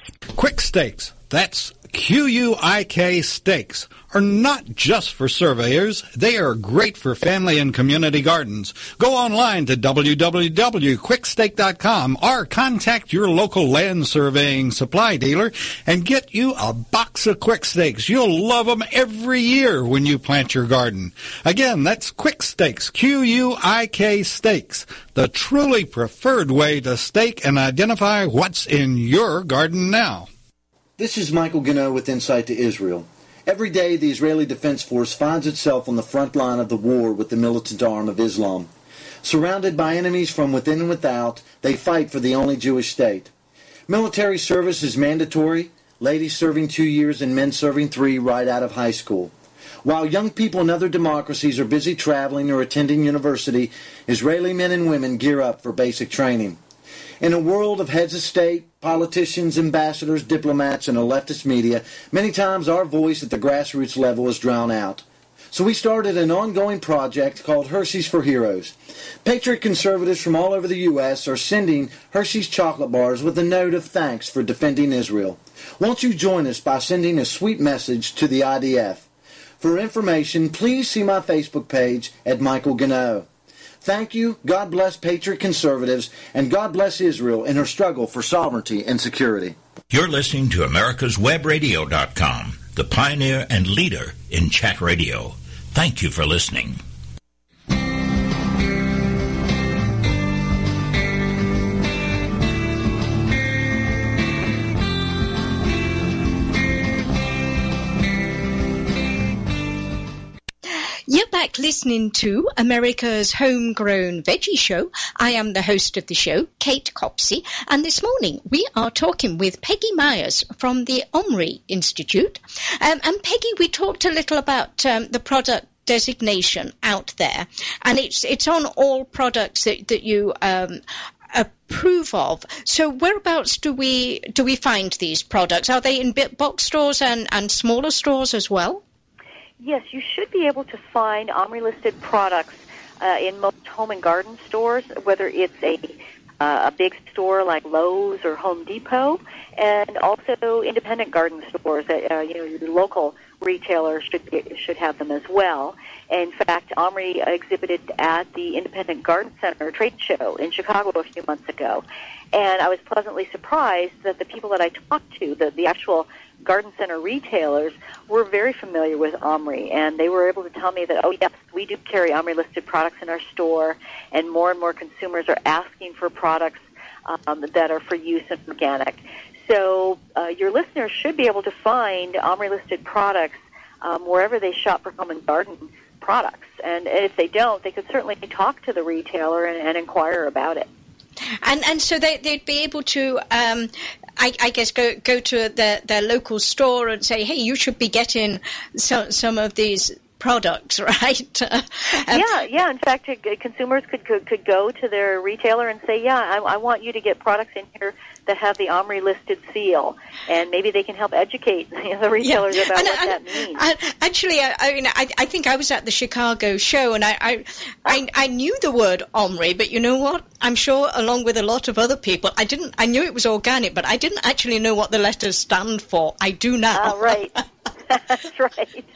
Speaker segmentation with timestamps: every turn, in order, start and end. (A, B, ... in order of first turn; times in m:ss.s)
0:00.3-0:30.3 A
0:31.0-0:38.7 B
0:39.2-0:43.3 B
0:43.9-0:49.3 B
0:49.8-0:56.6 B
0:57.2-1:19.1 B
1:19.6-1:23.3 B
1:23.8-1:29.6 B
1:29.9-1:36.8 C
1:50.7-2:18.8 D
2:19.6-3:10.7 E
3:11.4-3:22.2 D
3:22.1-3:33.6 E
3:32.2-3:47.2 D
3:46.8-3:48.9 E